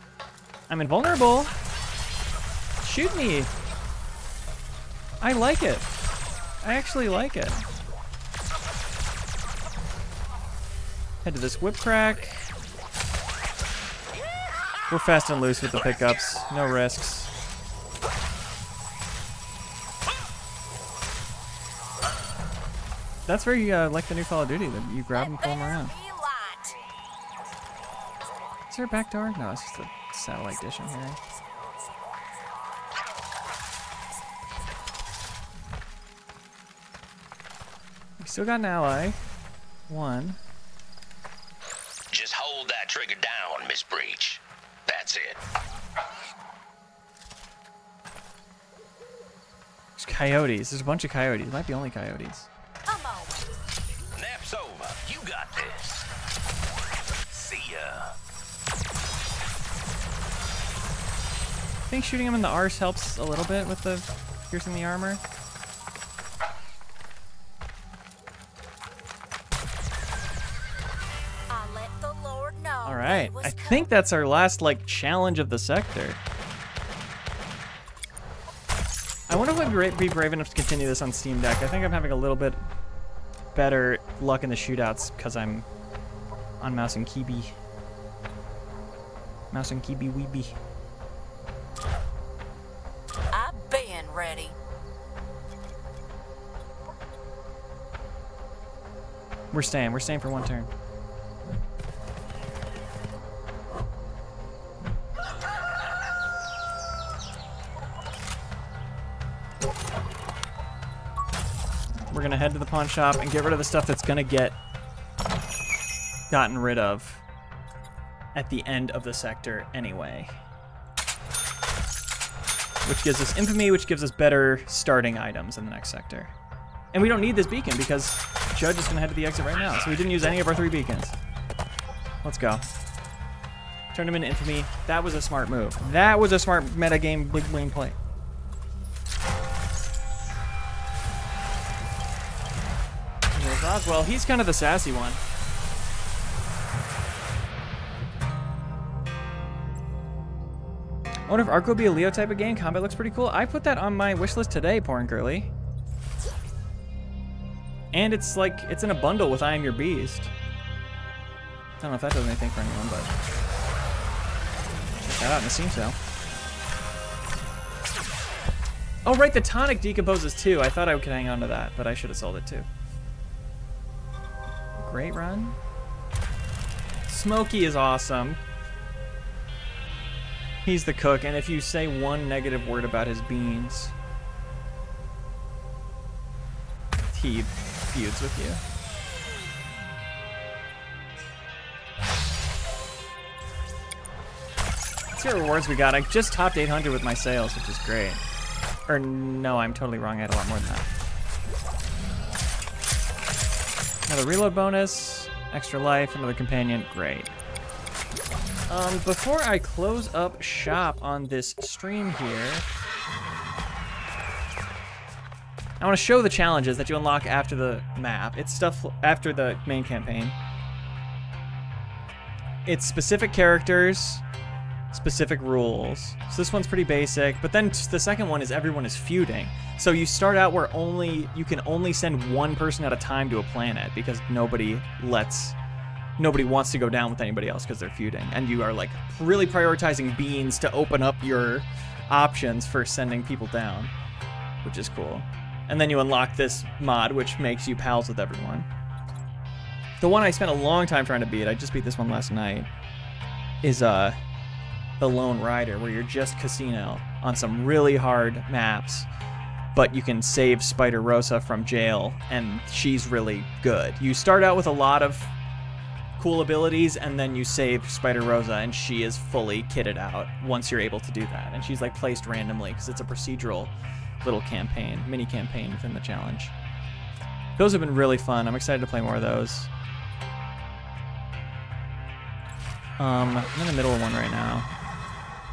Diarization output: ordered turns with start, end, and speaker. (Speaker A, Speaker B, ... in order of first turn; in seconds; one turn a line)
Speaker A: 0.7-1.5
Speaker A: 2.8-3.5
Speaker A: 5.2-5.9
Speaker A: 6.6-7.7
Speaker A: 11.2-12.4
Speaker A: 14.9-17.3
Speaker A: 23.3-25.9
Speaker B: 25.1-26.8
Speaker A: 28.7-31.2
Speaker A: 38.2-39.2
Speaker A: 39.9-40.4
Speaker C: 42.1-45.4
Speaker A: 50.0-52.5
Speaker B: 52.9-53.6
Speaker C: 54.1-56.1
Speaker C: 57.3-58.2
Speaker A: 61.9-65.2
Speaker B: 71.5-73.9
Speaker A: 72.8-76.2
Speaker A: 79.3-82.6
Speaker A: 83.5-85.7
Speaker A: 86.6-87.5
Speaker A: 89.5-90.6
Speaker B: 93.3-94.6
Speaker A: 99.5-100.7
Speaker A: 112.1-114.6
Speaker A: 116.3-117.2
Speaker A: 118.3-120.3
Speaker A: 122.8-126.3
Speaker A: 126.9-131.2
Speaker C: 129.5-130.0
Speaker A: 132.2-132.6
Speaker A: 133.9-138.0
Speaker A: 143.3-145.2
Speaker A: 151.3-155.5
Speaker A: 157.9-160.3
Speaker A: 161.8-163.1
Speaker A: 165.0-166.0
Speaker A: 169.1-172.7
Speaker A: 174.8-175.6
Speaker A: 177.1-178.4
Speaker A: 180.7-183.9
Speaker A: 187.1-188.6
Speaker A: 195.1-198.2
Speaker A: 198.9-200.9
Speaker A: 204.1-207.3
Speaker A: 208.7-212.7
Speaker A: 215.8-220.4
Speaker A: 222.7-224.2
Speaker A: 224.9-235.6
Speaker A: 236.2-243.9
Speaker A: 244.6-248.7
Speaker A: 250.0-252.7
Speaker A: 253.6-254.2
Speaker A: 255.0-259.1
Speaker A: 259.8-265.3
Speaker A: 266.2-276.5
Speaker A: 277.6-279.7
Speaker A: 283.0-284.7